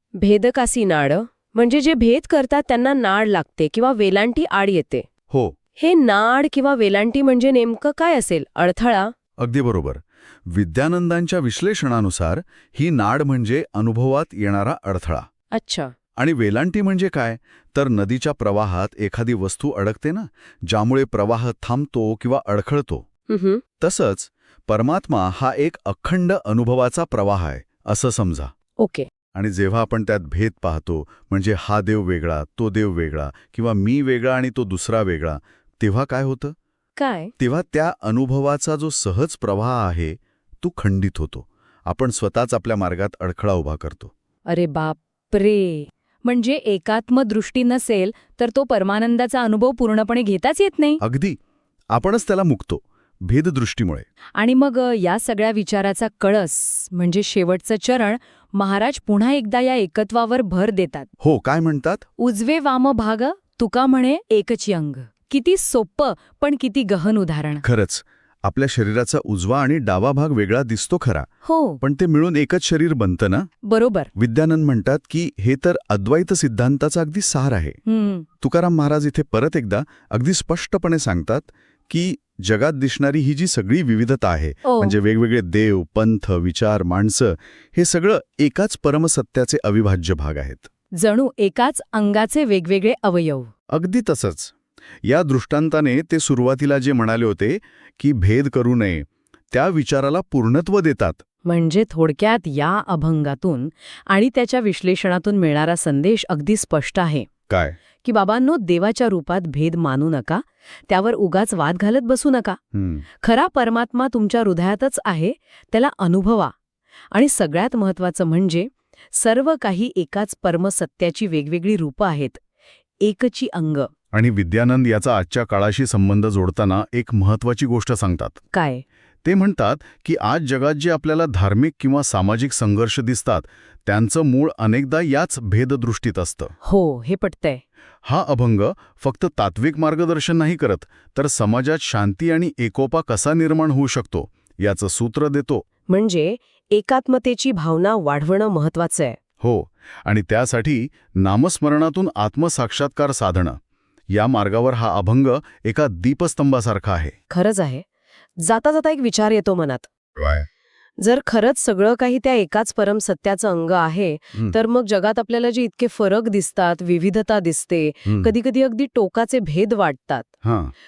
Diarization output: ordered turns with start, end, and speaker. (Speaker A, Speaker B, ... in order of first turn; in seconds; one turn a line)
Speaker A: 0.2-5.1
Speaker B: 5.3-5.5
Speaker A: 5.8-9.1
Speaker B: 9.4-15.2
Speaker A: 15.5-15.9
Speaker B: 16.2-23.1
Speaker A: 23.3-23.6
Speaker B: 23.8-28.5
Speaker A: 28.8-29.1
Speaker B: 29.4-36.5
Speaker A: 37.0-37.3
Speaker B: 37.4-44.1
Speaker A: 44.5-50.9
Speaker C: 46.3-50.9
Speaker B: 51.0-51.4
Speaker B: 51.9-54.1
Speaker C: 54.4-61.0
Speaker A: 54.4-57.8
Speaker A: 58.6-61.1
Speaker B: 61.2-62.0
Speaker C: 62.2-67.6
Speaker A: 62.3-67.5
Speaker B: 67.6-71.3
Speaker B: 71.8-73.5
Speaker A: 73.7-74.1
Speaker B: 74.2-77.8
Speaker C: 77.9-78.2
Speaker B: 78.4-90.7
Speaker A: 84.7-84.9
Speaker A: 91.0-93.5
Speaker B: 93.7-94.5
Speaker B: 95.0-101.2
Speaker A: 101.5-107.3
Speaker B: 107.5-107.8
Speaker A: 108.0-112.6
Speaker B: 112.7-113.0
Speaker A: 113.2-116.5
Speaker A: 117.1-122.4
Speaker A: 123.0-123.9
Speaker B: 124.1-128.4
Speaker A: 128.5-128.8
Speaker B: 129.2-136.5
Speaker A: 136.6-137.6
Speaker B: 138.1-145.6
Speaker A: 145.9-149.2
Speaker B: 149.4-153.6
Speaker B: 154.1-157.1
Speaker A: 157.3-157.8
Speaker A: 158.4-159.9
Speaker B: 160.2-160.5
Speaker A: 161.0-170.3
Speaker B: 168.1-168.3
Speaker B: 170.4-170.7